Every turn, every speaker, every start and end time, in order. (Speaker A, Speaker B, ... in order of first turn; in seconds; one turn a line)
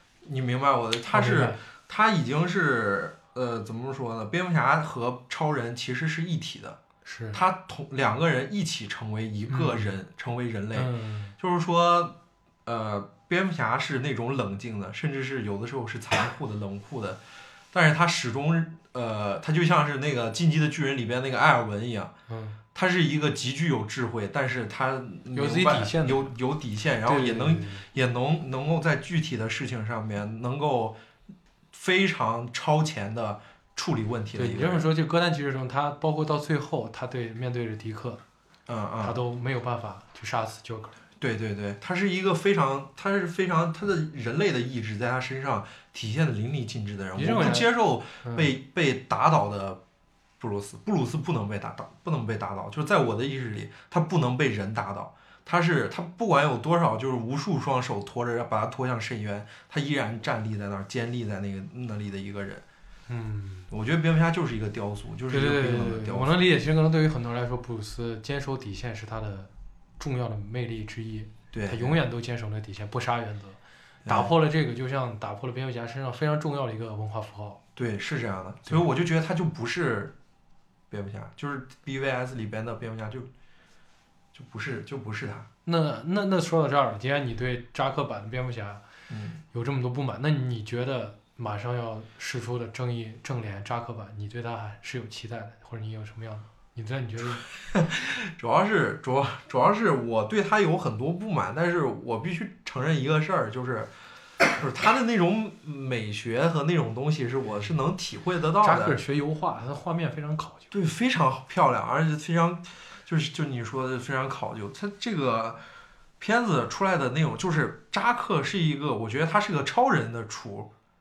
Speaker A: 0.2-6.8
Speaker B: 1.1-1.6
Speaker B: 7.0-7.4
Speaker A: 7.3-17.2
Speaker B: 9.5-9.9
Speaker B: 10.7-11.3
Speaker A: 17.7-22.1
Speaker B: 22.3-22.6
Speaker A: 22.7-31.0
Speaker B: 25.3-26.3
Speaker B: 27.0-27.9
Speaker A: 31.7-34.9
Speaker B: 34.4-38.2
Speaker A: 38.7-39.2
Speaker B: 39.0-41.0
Speaker A: 41.2-49.8
Speaker B: 47.1-48.5
Speaker A: 50.4-62.6
Speaker B: 63.1-63.7
Speaker A: 63.7-66.4
Speaker B: 65.3-77.6
Speaker A: 71.5-72.0
Speaker A: 74.0-74.3
Speaker A: 77.8-80.1
Speaker A: 80.9-83.3
Speaker A: 84.3-85.5
Speaker B: 85.7-88.8
Speaker A: 89.1-89.4
Speaker B: 89.5-97.4
Speaker A: 97.6-103.9
Speaker A: 104.5-109.0
Speaker B: 108.6-110.7
Speaker A: 110.7-115.6
Speaker A: 116.2-120.7